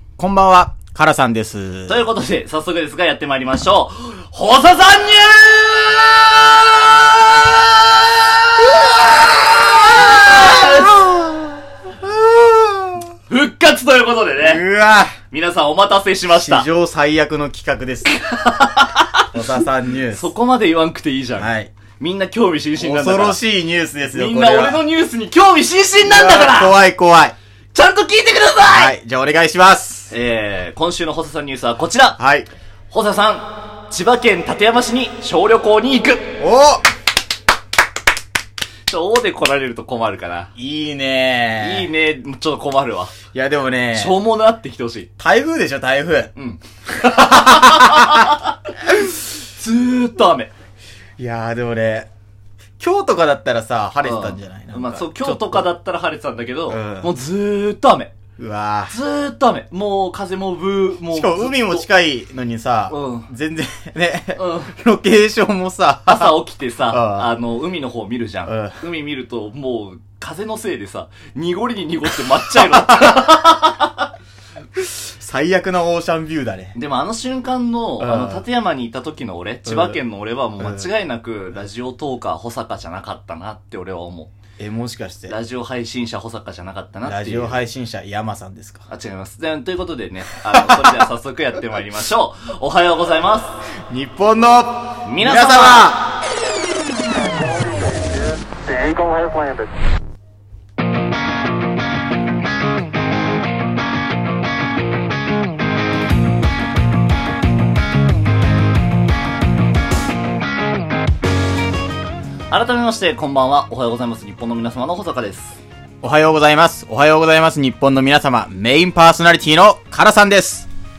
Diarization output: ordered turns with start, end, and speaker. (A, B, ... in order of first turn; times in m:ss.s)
0:00.2-0:02.0 A
0:01.9-0:10.9 B
0:10.0-0:13.1 A
0:13.3-0:14.6 B
0:14.4-0:15.1 A
0:15.3-0:16.6 B
0:16.3-0:18.1 A
0:18.0-0:19.4 B
0:19.3-0:20.3 A
0:20.1-0:23.4 B
0:21.4-0:21.7 A
0:22.8-0:24.8 A
0:24.1-0:26.8 B
0:26.0-0:27.3 A
0:27.7-0:28.9 B
0:28.6-0:30.1 A
0:30.1-0:32.2 B
0:32.2-0:32.5 A
0:32.9-0:36.2 B
0:36.4-0:36.8 A
0:38.9-0:40.5 B
0:40.6-0:41.9 A
0:41.6-0:43.2 B
0:43.3-0:44.2 A
0:43.9-0:45.1 B
0:45.2-0:46.3 A
0:46.4-0:50.5 B
0:46.9-0:48.3 A
0:51.2-0:52.1 A
0:52.8-0:55.7 A
0:54.0-0:58.1 B
0:56.7-0:57.1 A
0:58.4-0:58.9 A
0:58.9-1:01.8 B
1:01.1-1:07.3 A
1:02.9-1:03.3 B
1:04.4-1:04.7 B
1:06.1-1:14.1 B
1:08.4-1:08.8 A
1:14.8-1:16.7 A
1:16.7-1:24.3 B
1:18.0-1:18.4 A
1:19.6-1:20.0 A
1:20.6-1:20.9 A
1:24.6-1:25.3 A
1:25.3-1:27.6 B
1:27.0-1:28.8 A
1:28.9-1:33.5 B
1:30.5-1:30.9 A
1:33.9-1:36.1 A
1:35.0-1:35.9 B
1:52.5-1:55.6 B
1:56.0-2:00.7 A